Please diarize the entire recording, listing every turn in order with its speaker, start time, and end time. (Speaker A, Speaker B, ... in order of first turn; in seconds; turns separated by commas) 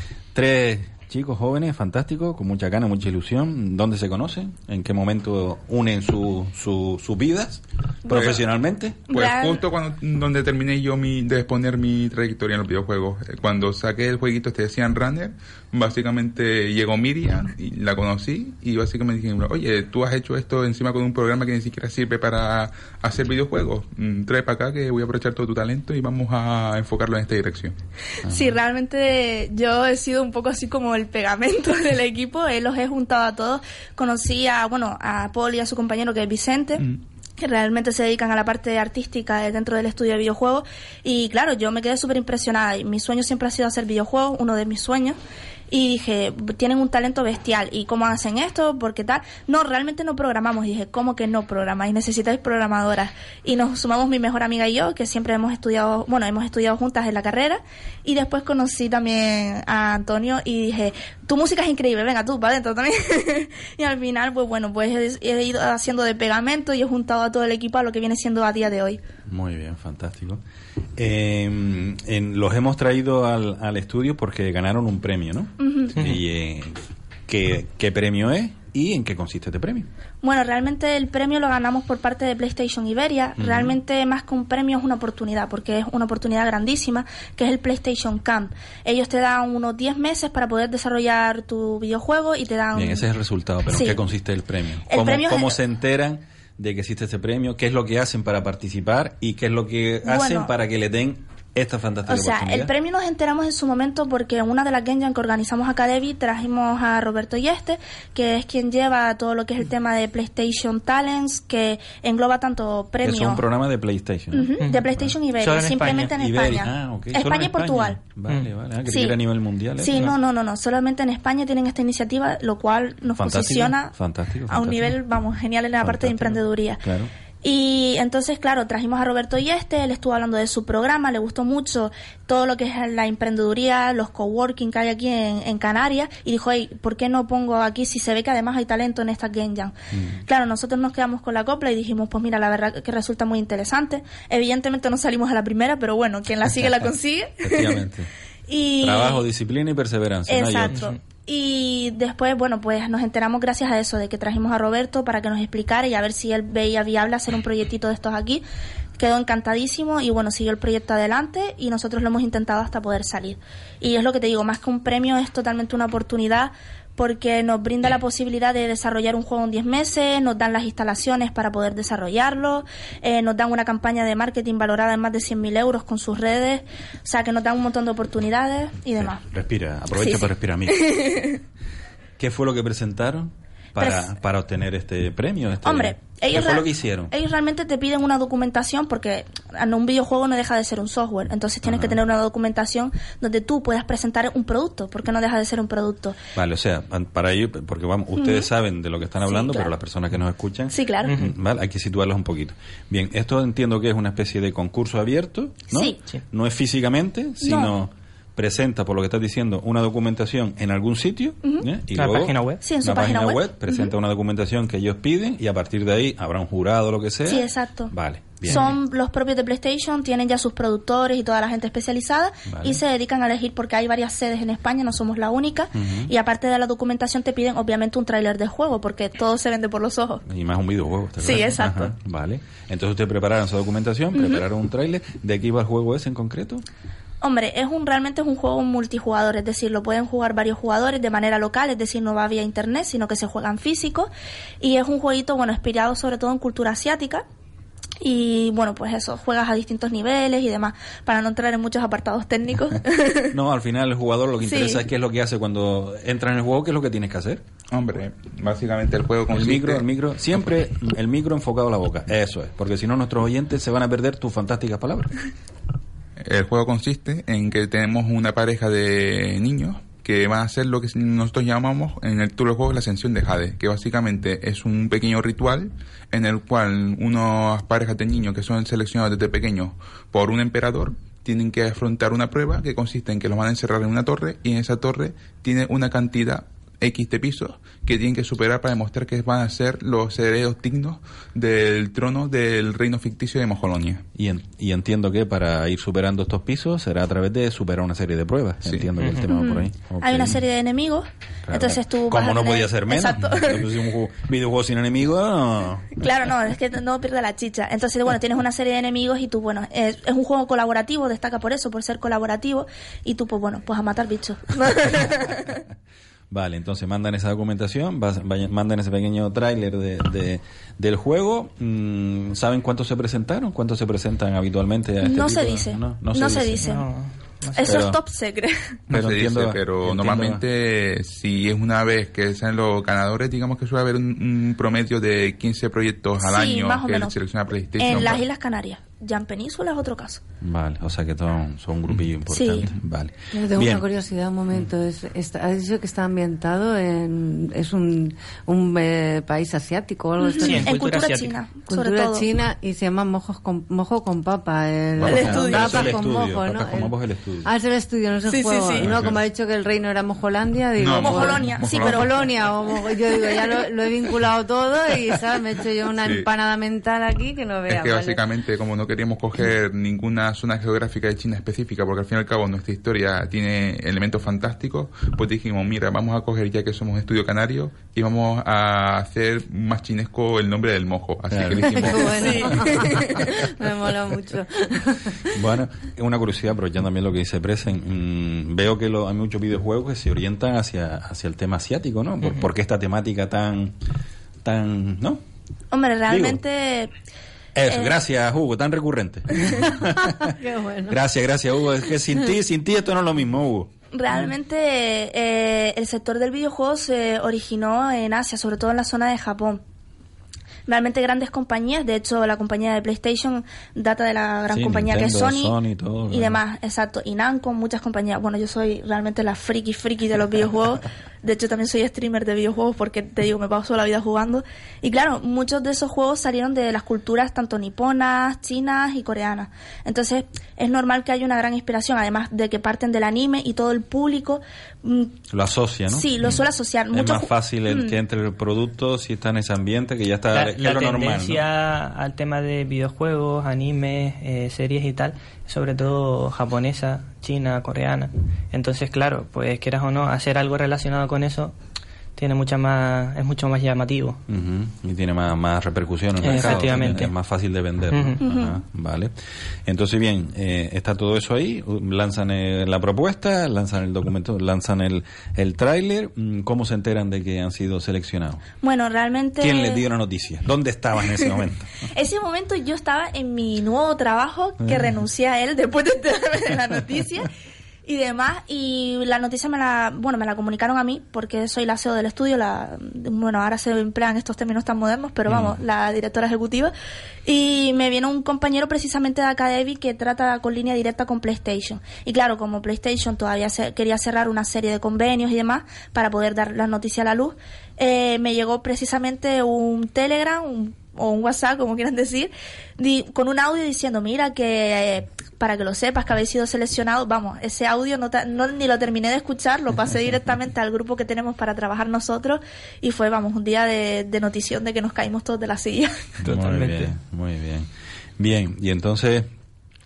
Speaker A: 0.3-9.1, Speaker B: 8.1-8.4, Speaker C: 8.1-8.4, Speaker B: 9.1-9.6, Speaker C: 9.1-27.7, Speaker A: 28.2-28.5, Speaker B: 28.2-36.9, Speaker B: 37.4-45.2, Speaker B: 45.7-69.0, Speaker A: 69.3-70.4, Speaker A: 71.0-76.8, Speaker B: 75.6-76.0, Speaker A: 77.3-79.9, Speaker B: 80.2-93.0, Speaker A: 83.4-83.8, Speaker A: 92.7-102.7, Speaker B: 93.7-94.0, Speaker B: 94.9-95.6, Speaker B: 100.0-100.5, Speaker B: 102.1-113.5, Speaker A: 113.0-115.1, Speaker B: 114.3-118.0, Speaker D: 115.4-116.1, Speaker A: 115.9-120.1, Speaker B: 118.9-119.2, Speaker B: 119.8-123.9, Speaker A: 123.2-125.0, Speaker B: 124.5-126.8, Speaker A: 125.8-127.1, Speaker B: 127.4-139.8, Speaker A: 139.9-140.2, Speaker B: 140.2-147.8, Speaker A: 147.4-148.1, Speaker B: 148.5-149.2, Speaker A: 148.8-150.9, Speaker B: 150.3-158.4, Speaker D: 150.7-151.0, Speaker B: 159.0-179.2, Speaker A: 178.9-181.3, Speaker B: 179.9-181.4, Speaker A: 182.2-187.1, Speaker B: 183.8-184.0, Speaker B: 185.6-196.2, Speaker A: 191.6-192.0, Speaker A: 196.3-218.8, Speaker B: 198.2-198.5, Speaker B: 199.2-199.7, Speaker B: 200.7-201.1, Speaker D: 201.0-201.3, Speaker B: 205.7-206.0, Speaker B: 207.4-207.7, Speaker D: 211.9-212.6, Speaker B: 212.6-213.9, Speaker B: 217.2-230.2, Speaker D: 218.5-218.8, Speaker A: 222.5-222.8, Speaker A: 225.8-226.1, Speaker A: 230.2-236.6, Speaker B: 231.2-231.9, Speaker B: 234.1-234.4, Speaker B: 237.2-244.1, Speaker B: 244.6-247.2, Speaker B: 248.0-253.3, Speaker A: 253.3-257.4, Speaker B: 254.4-254.8, Speaker C: 257.7-259.9, Speaker A: 259.3-265.1, Speaker C: 266.2-294.0, Speaker A: 294.1-300.4, Speaker C: 298.6-298.9, Speaker B: 299.3-303.7, Speaker A: 301.5-306.0, Speaker B: 306.0-315.6, Speaker A: 316.3-326.7, Speaker B: 325.0-326.9, Speaker D: 326.6-327.8, Speaker B: 327.6-328.8, Speaker A: 327.6-328.0, Speaker C: 328.9-338.2, Speaker A: 328.9-330.4, Speaker B: 336.2-337.1, Speaker B: 337.8-340.2, Speaker A: 340.4-343.9, Speaker B: 342.3-342.7, Speaker E: 343.3-350.7, Speaker B: 350.2-352.2, Speaker D: 350.4-351.3, Speaker E: 351.7-368.2, Speaker A: 355.0-357.5, Speaker B: 355.0-356.0, Speaker B: 358.3-358.9, Speaker A: 358.8-359.1, Speaker C: 358.9-359.2, Speaker C: 360.8-362.2, Speaker B: 361.0-362.1, Speaker C: 366.0-366.3, Speaker C: 367.7-382.7, Speaker A: 381.3-382.1, Speaker E: 381.8-385.4, Speaker B: 382.2-383.3, Speaker A: 385.3-393.8, Speaker A: 394.4-395.2, Speaker B: 395.7-396.9, Speaker A: 396.1-396.4, Speaker A: 397.5-403.7, Speaker B: 397.7-397.9, Speaker E: 400.2-401.0, Speaker B: 403.9-409.6, Speaker B: 410.7-415.6, Speaker A: 414.5-416.4, Speaker B: 416.1-435.1, Speaker A: 435.3-436.1, Speaker B: 435.9-438.0, Speaker A: 436.9-441.5, Speaker D: 440.3-451.5, Speaker D: 452.1-454.2, Speaker A: 454.3-459.1, Speaker D: 456.2-457.1, Speaker D: 457.9-458.2, Speaker B: 458.2-458.6, Speaker A: 459.6-468.4, Speaker B: 468.6-469.9, Speaker A: 469.4-471.7, Speaker B: 471.8-477.3, Speaker B: 477.9-486.7, Speaker A: 485.3-485.5, Speaker B: 487.2-516.0, Speaker A: 516.2-519.3, Speaker D: 516.2-516.9